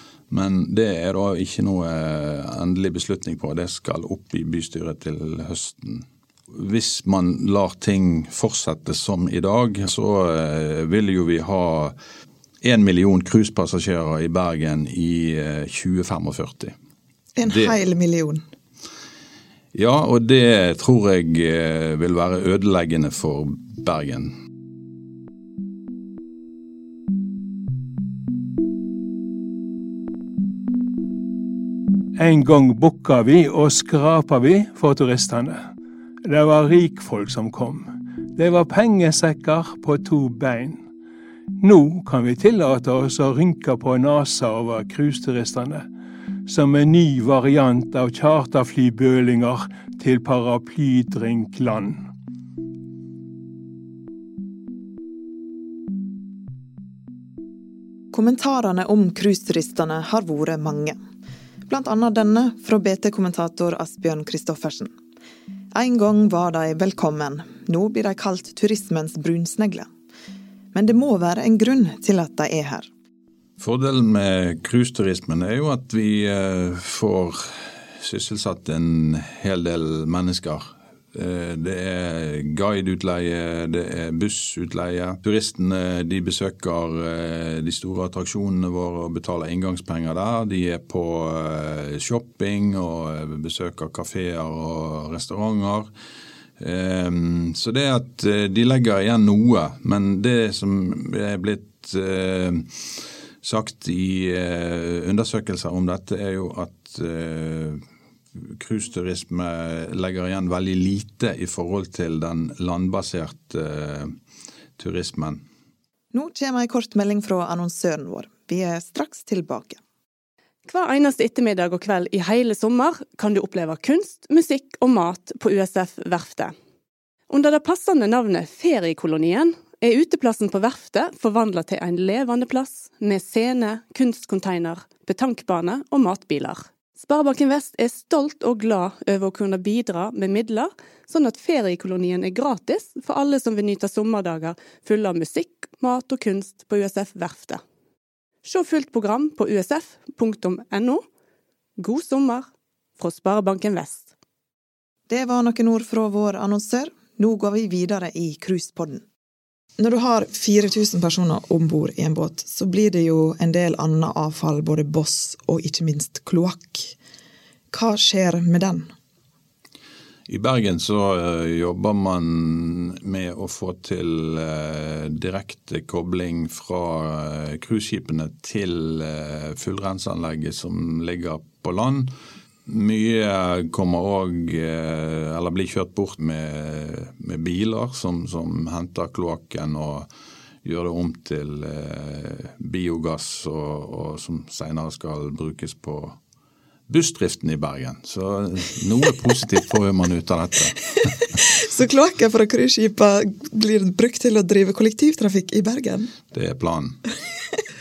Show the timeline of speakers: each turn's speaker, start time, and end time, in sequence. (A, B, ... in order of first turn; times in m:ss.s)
0:00.3-0:11.9 A
0:12.6-0:16.7 A
0:17.4-0:18.4 B
0:17.4-0:17.8 A
0:19.7-0:24.3 A
0:32.2-0:35.6 C
0:36.2-0:40.8 C
0:41.6-0:45.8 C
0:46.4-0:52.0 C
0:58.1-1:01.0 B
1:01.7-1:04.9 B
1:05.7-1:09.9 B
1:10.7-1:12.9 B
1:13.6-1:20.6 A
1:21.1-1:35.9 A
1:36.6-1:42.7 A
1:43.4-1:47.8 A
1:48.4-1:54.1 A
1:54.8-1:55.4 A
1:56.1-1:59.8 B
2:00.6-2:06.5 D
2:07.3-2:27.6 D
2:28.4-2:31.0 D
2:31.8-2:32.4 D
2:33.0-2:34.1 D
2:35.1-2:39.0 B
2:39.8-2:46.9 B
2:47.7-2:48.9 B
2:50.3-3:02.1 A
3:02.7-3:10.1 A
3:10.6-3:16.2 A
3:16.9-3:21.1 A
3:21.5-3:26.1 B
3:26.3-3:27.0 A